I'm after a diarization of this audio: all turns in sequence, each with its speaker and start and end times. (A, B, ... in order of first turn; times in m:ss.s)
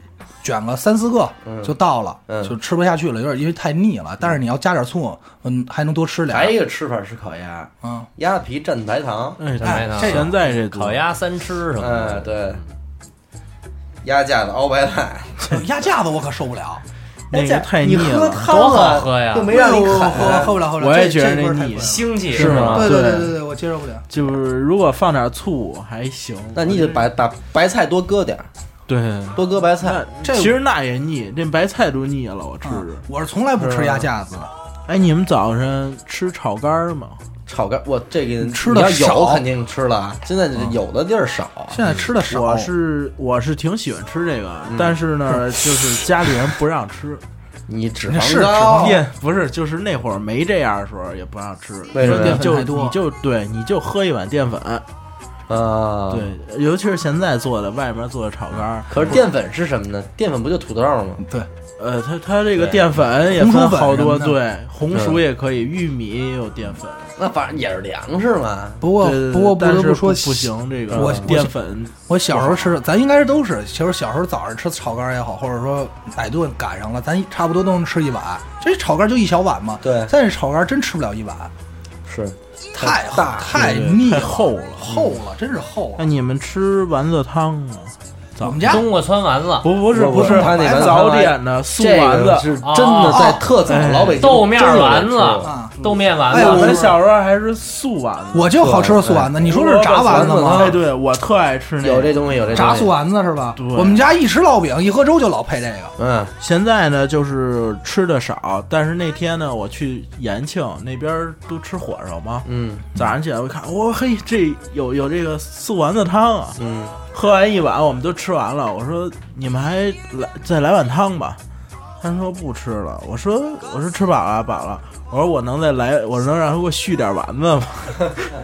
0:00.4-0:06.6 A
0:01.4-0:01.7 B
0:02.3-0:02.6 B
0:06.3-0:09.4 B
0:07.8-0:08.1 A
0:09.4-0:11.0 C
0:09.6-0:12.3 D
0:09.6-0:10.3 A
0:11.8-0:12.6 B
0:14.0-0:15.5 B
0:15.4-0:16.8 A
0:17.3-0:18.5 C
0:17.3-0:20.5 B
0:18.5-0:19.5 D
0:19.5-0:24.1 A
0:20.1-0:23.4 C
0:21.7-0:22.9 D
0:22.4-0:22.9 B
0:24.1-0:27.0 C
0:26.5-0:28.5 B
0:28.9-0:33.0 C
0:29.4-0:30.0 B
0:30.2-0:30.6 A
0:32.6-0:34.5 A
0:33.6-0:34.0 B
0:34.9-0:37.2 C
0:37.5-0:41.8 B
0:38.4-0:39.4 A
0:41.7-0:42.7 A
0:42.2-0:47.2 C
0:44.7-0:45.0 B
0:47.7-0:49.0 B
0:48.1-0:49.0 A
0:48.8-0:54.8 C
0:51.9-0:52.5 B
0:52.0-0:53.0 A
0:55.5-0:56.4 B
0:56.1-0:59.2 C
0:58.9-1:01.2 B
1:01.2-1:01.5 A
1:01.8-1:07.1 C
1:02.6-1:02.9 B
1:03.3-1:04.4 A
1:04.9-1:05.2 B
1:07.2-1:08.9 B
1:08.8-1:11.5 A
1:09.0-1:11.9 C
1:10.9-1:11.3 B
1:12.1-1:21.5 A
1:19.8-1:20.1 B
1:22.1-1:23.6 B
1:22.7-1:26.0 A
1:23.4-1:24.9 C
1:26.0-1:28.8 C
1:28.4-1:28.9 A
1:28.6-1:29.7 D
1:29.6-1:32.6 C
1:29.9-1:35.5 B
1:30.0-1:31.0 A
1:32.6-1:33.4 D
1:33.1-1:33.5 A
1:33.7-1:34.2 C
1:34.2-1:37.0 D
1:35.4-1:35.7 A
1:35.8-1:38.7 C
1:36.3-1:37.0 A
1:38.3-1:40.8 A
1:38.6-1:39.3 B
1:39.4-1:42.7 C
1:40.1-1:40.8 B
1:41.8-1:42.9 B
1:42.5-1:46.0 A
1:43.6-1:44.0 C
1:46.0-1:46.3 B
1:46.4-1:56.6 C
1:52.4-1:52.9 B
1:56.6-1:57.0 B
1:57.1-2:01.4 C
2:02.0-2:08.2 C